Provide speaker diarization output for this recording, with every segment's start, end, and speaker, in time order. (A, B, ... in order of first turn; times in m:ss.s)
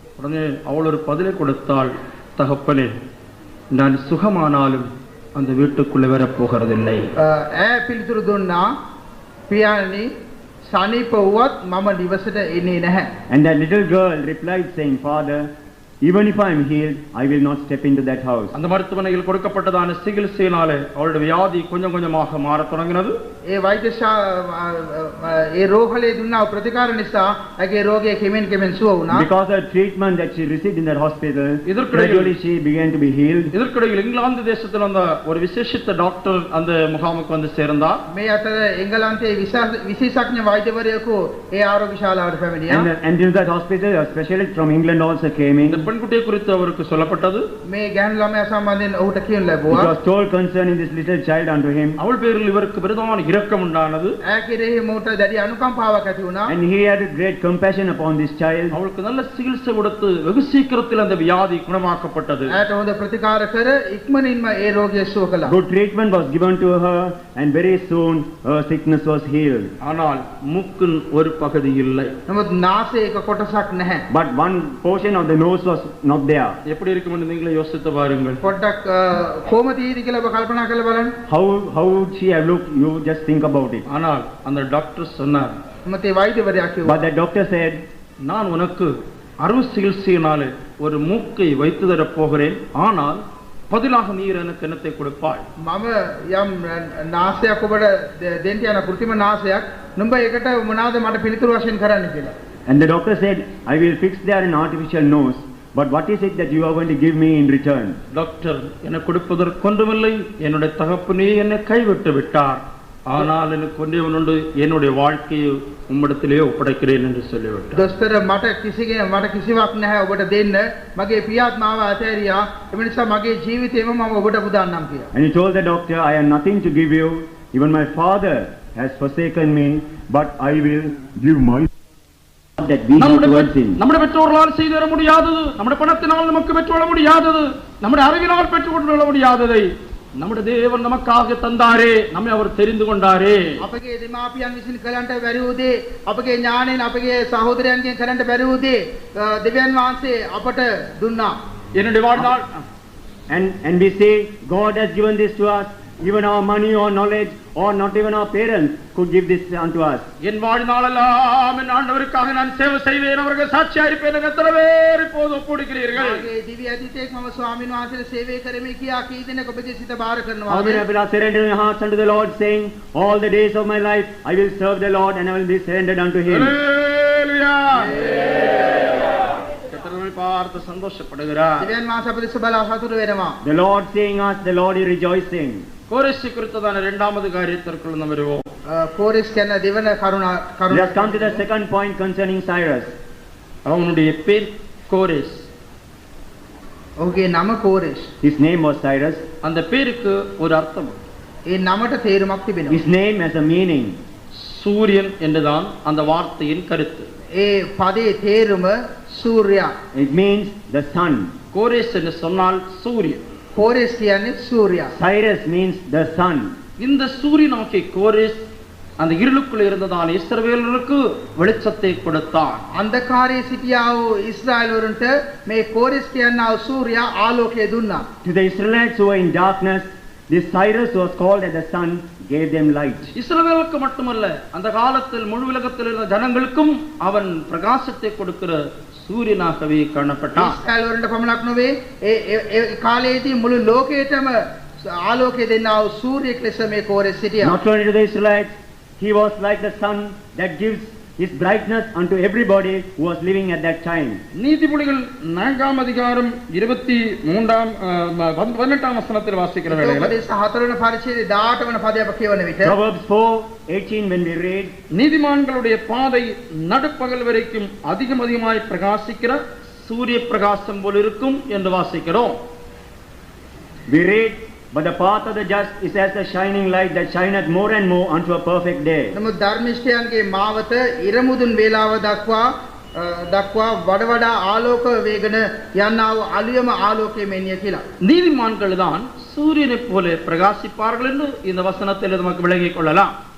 0:00.2-0:02.9 A
0:03.7-0:07.1 A
0:07.2-0:08.7 B
0:09.5-0:10.1 B
0:10.6-0:13.1 B
0:13.3-0:15.5 C
0:16.0-0:18.5 C
0:18.5-0:23.2 A
0:23.5-0:29.3 B
0:29.1-0:33.5 C
0:31.7-0:32.3 A
0:33.5-0:38.0 A
0:38.1-0:42.9 B
0:42.7-0:45.9 C
0:45.7-0:47.4 A
0:47.7-0:49.9 B
0:49.7-0:52.0 C
0:52.0-0:54.2 A
0:54.2-0:56.5 B
0:56.5-0:58.8 C
0:58.7-1:02.5 A
1:02.5-1:05.5 B
1:05.4-1:09.7 C
1:09.8-1:12.1 A
1:12.3-1:14.0 B
1:14.1-1:16.6 C
1:16.7-1:18.4 A
1:18.4-1:21.1 B
1:21.3-1:23.8 C
1:23.9-1:25.6 A
1:25.8-1:27.0 B
1:26.8-1:27.8 C
1:28.2-1:35.4 A
1:35.6-1:42.3 B
1:42.7-1:48.0 C
1:48.1-1:57.8 A
1:57.7-2:05.1 B
2:05.1-2:11.7 C
2:12.6-2:13.8 C
2:13.0-2:23.6 A
2:23.6-2:31.4 B
2:31.8-2:32.5 A
2:33.3-2:40.1 C
2:40.2-2:46.3 A
2:45.9-2:50.8 B
2:50.5-2:56.6 C
2:56.3-3:01.7 A
2:57.7-2:58.2 B
3:01.6-3:03.4 B
3:03.4-3:05.6 C
3:05.9-3:08.4 A
3:08.7-3:11.4 B
3:10.7-3:12.9 C
3:13.6-3:15.5 A
3:17.0-3:18.1 B
3:18.2-3:19.2 C
3:19.4-3:21.0 A
3:21.5-3:22.8 B
3:22.7-3:24.0 C
3:24.3-3:27.1 A
3:27.4-3:29.7 B
3:29.9-3:31.3 C
3:31.5-3:33.2 A
3:33.5-3:34.9 B
3:34.9-3:36.5 C
3:36.8-3:38.5 A
3:39.0-3:42.6 A
3:42.7-3:48.1 B
3:48.2-3:53.1 C
3:53.2-4:00.6 A
4:00.4-4:07.6 B
4:07.4-4:14.2 C
4:14.3-4:20.1 A
4:19.7-4:22.8 B
4:22.6-4:24.7 C
4:24.9-4:32.4 A
4:33.9-4:39.1 C
4:39.1-4:47.8 B
4:48.0-4:53.1 A